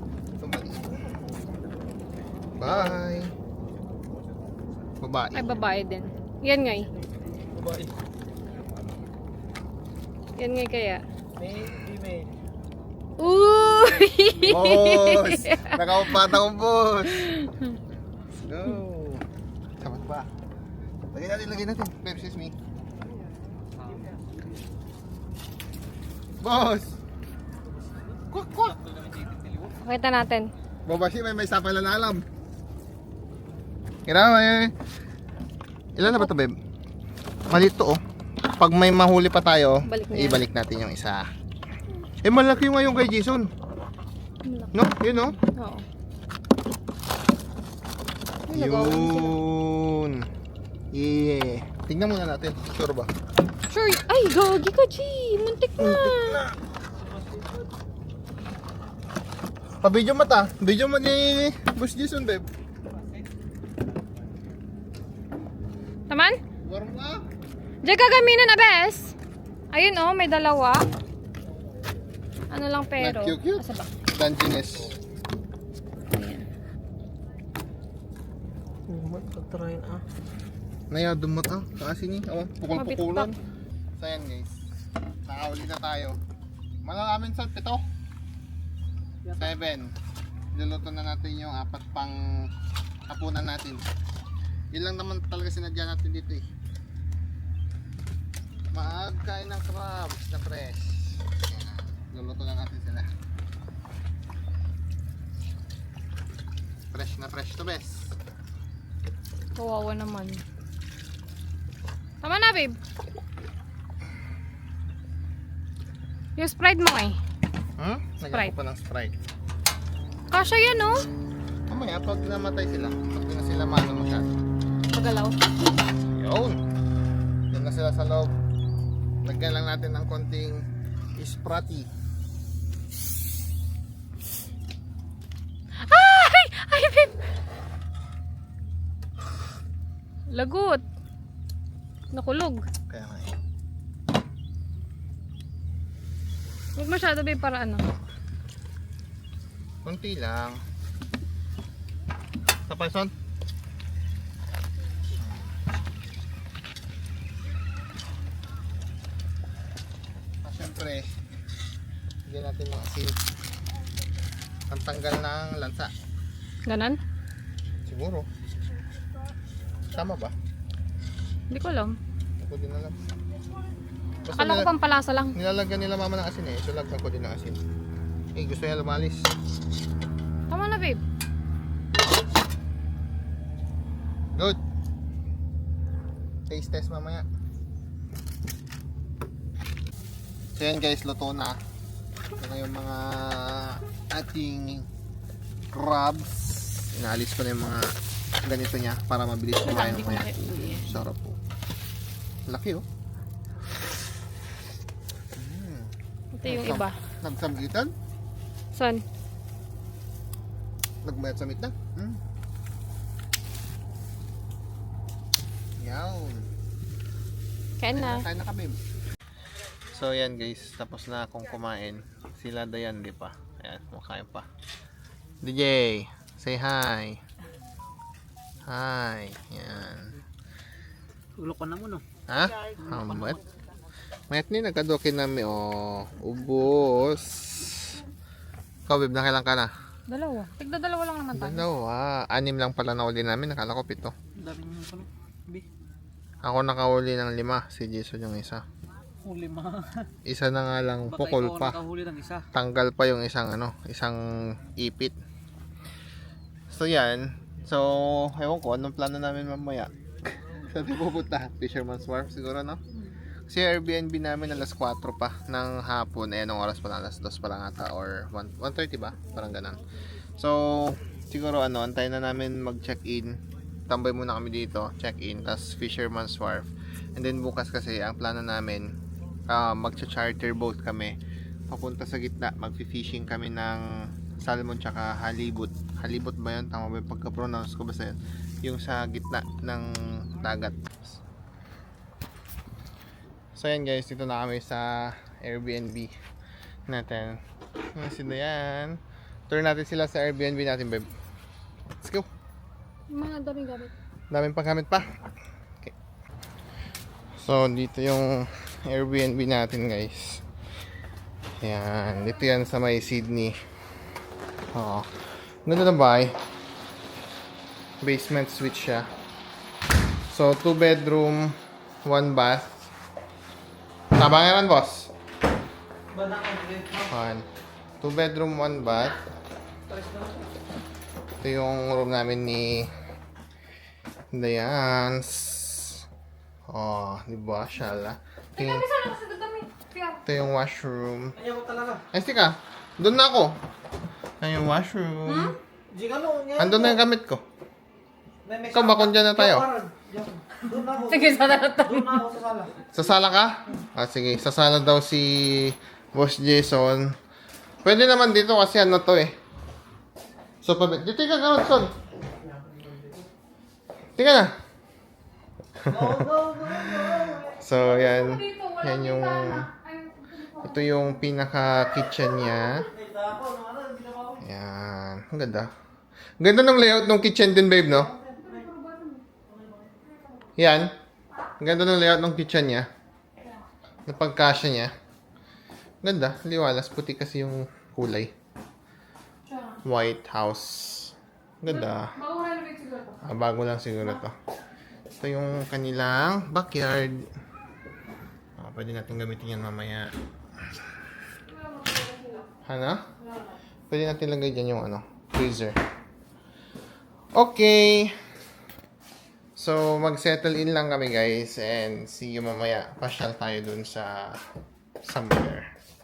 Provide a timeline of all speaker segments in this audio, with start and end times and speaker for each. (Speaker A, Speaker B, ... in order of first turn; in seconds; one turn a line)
Speaker A: 0.4-0.9
Speaker A: 2.6-3.3
Speaker B: 2.6-2.9
Speaker A: 5.0-5.5
Speaker C: 5.3-6.9
Speaker B: 7.4-7.9
Speaker C: 10.4-11.0
Speaker B: 11.3-12.4
Speaker C: 13.2-16.2
Speaker A: 14.4-17.3
Speaker C: 17.1-17.8
Speaker A: 18.3-19.2
Speaker A: 19.8-20.3
Speaker A: 21.1-22.5
Speaker A: 26.4-27.0
Speaker A: 28.3-28.8
Speaker B: 29.2-29.6
Speaker C: 29.8-30.5
Speaker A: 30.9-32.2
Speaker A: 34.0-34.7
Speaker A: 36.0-36.5
Speaker C: 36.0-36.3
Speaker A: 37.5-38.0
Speaker A: 38.5-41.3
Speaker C: 39.9-40.4
Speaker A: 42.2-43.5
Speaker C: 44.4-45.9
Speaker A: 44.7-45.4
Speaker C: 48.5-49.4
Speaker A: 48.5-50.3
Speaker A: 50.9-53.1
Speaker C: 53.7-56.4
Speaker A: 55.8-56.6
Speaker B: 57.0-57.6
Speaker A: 59.8-62.4
Speaker C: 66.1-66.4
Speaker A: 66.6-67.2
Speaker C: 67.8-69.1
Speaker C: 69.7-70.9
Speaker C: 72.5-73.9
Speaker A: 73.0-75.0
Speaker C: 76.1-76.5
Speaker B: 78.9-80.0
Speaker A: 80.9-83.3
Speaker C: 82.7-83.4
Speaker A: 84.0-84.6
Speaker A: 85.2-86.2
Speaker A: 86.8-87.8
Speaker A: 89.4-89.9
Speaker A: 90.5-92.5
Speaker A: 93.1-93.8
Speaker A: 94.7-96.5
Speaker A: 98.7-103.1
Speaker A: 106.9-108.2
Speaker C: 109.5-110.4
Speaker C: 112.2-112.8
Speaker C: 116.4-117.2
Speaker A: 117.8-119.1
Speaker C: 120.3-121.0
Speaker A: 121.7-124.3
Speaker C: 124.9-125.3
Speaker A: 126.1-126.6
Speaker A: 127.5-128.3
Speaker A: 129.2-130.6
Speaker A: 131.2-131.9
Speaker C: 135.9-137.2
Speaker C: 140.3-140.8
Speaker C: 142.1-142.6
Speaker A: 142.9-143.3
Speaker C: 146.8-147.8
Speaker A: 149.8-150.6
Speaker A: 152.7-153.1
Speaker A: 160.4-161.1
Speaker A: 162.2-163.2
Speaker A: 164.7-165.9
Speaker C: 166.7-167.0
Speaker A: 167.8-168.3
Speaker A: 169.9-170.3
Speaker C: 171.5-172.0
Speaker A: 172.4-172.9
Speaker A: 174.2-174.7
Speaker C: 174.3-175.3
Speaker A: 175.3-177.6
Speaker A: 178.3-179.3
Speaker C: 180.5-181.0
Speaker A: 184.3-184.6
Speaker A: 186.5-187.2
Speaker A: 190.6-191.6
Speaker A: 192.4-194.9
Speaker A: 195.7-197.9
Speaker A: 198.4-201.4
Speaker C: 199.6-201.0
Speaker A: 202.5-202.8
Speaker A: 205.3-205.9
Speaker C: 206.3-206.9
Speaker A: 206.4-207.9
Speaker C: 208.7-209.0
Speaker A: 211.0-212.2
Speaker A: 215.8-216.5
Speaker C: 217.8-218.2
Speaker A: 217.9-218.8
Speaker A: 219.9-224.5
Speaker A: 225.4-227.2
Speaker A: 228.7-230.2
Speaker B: 231.3-232.0
Speaker A: 232.3-233.4
Speaker B: 232.6-233.4
Speaker A: 234.3-238.0
Speaker A: 238.9-239.7
Speaker C: 240.1-241.7
Speaker A: 241.3-244.1
Speaker B: 244.3-245.7
Speaker A: 246.4-248.6
Speaker B: 249.2-250.1
Speaker A: 250.2-251.8
Speaker B: 251.1-252.4
Speaker A: 252.5-255.2
Speaker A: 256.7-262.8
Speaker A: 263.5-269.8
Speaker A: 270.4-273.4
Speaker A: 273.9-278.9
Speaker A: 279.5-281.1
Speaker A: 281.7-283.8
Speaker A: 284.4-291.2
Speaker A: 293.6-296.1
Speaker A: 296.9-297.4
Speaker A: 297.9-301.1
Speaker A: 302.0-302.3
Speaker C: 303.1-303.9
Speaker A: 304.3-305.0
Speaker A: 307.4-310.4
Speaker A: 311.6-313.6
Speaker A: 314.7-315.1
Speaker A: 315.6-316.3
Speaker A: 318.0-319.1
Speaker A: 320.3-322.9
Speaker A: 324.1-325.1
Speaker B: 326.1-327.1
Speaker A: 327.1-327.4
Speaker A: 328.0-329.2
Speaker B: 329.9-330.4
Speaker A: 331.4-332.9
Speaker A: 334.3-336.0
Speaker A: 336.7-338.8
Speaker C: 338.6-340.2
Speaker A: 340.2-341.3
Speaker B: 341.4-342.0
Speaker A: 342.1-343.6
Speaker A: 344.4-345.5
Speaker C: 345.3-345.5
Speaker B: 345.9-347.0
Speaker A: 346.6-347.4
Speaker B: 348.4-352.8
Speaker A: 348.7-349.7
Speaker C: 351.0-352.2
Speaker A: 352.9-357.1
Speaker A: 357.8-359.3
Speaker A: 360.6-361.9
Speaker A: 364.2-364.5
Speaker A: 365.8-369.7
Speaker B: 365.9-367.6
Speaker C: 368.1-370.7
Speaker A: 370.6-372.9
Speaker B: 372.9-374.4
Speaker A: 374.4-375.7
Speaker A: 376.4-378.1
Speaker C: 378.4-379.2
Speaker A: 380.6-380.9
Speaker A: 381.6-382.9
Speaker A: 384.1-384.9
Speaker A: 386.0-388.3
Speaker C: 389.5-389.8
Speaker A: 389.8-392.1
Speaker C: 391.9-393.2
Speaker A: 393.2-394.3
Speaker A: 395.2-397.3
Speaker A: 398.6-400.1
Speaker C: 401.5-402.5
Speaker A: 402.6-403.1
Speaker A: 403.9-405.8
Speaker A: 407.3-408.1
Speaker A: 409.6-414.4
Speaker A: 415.0-415.7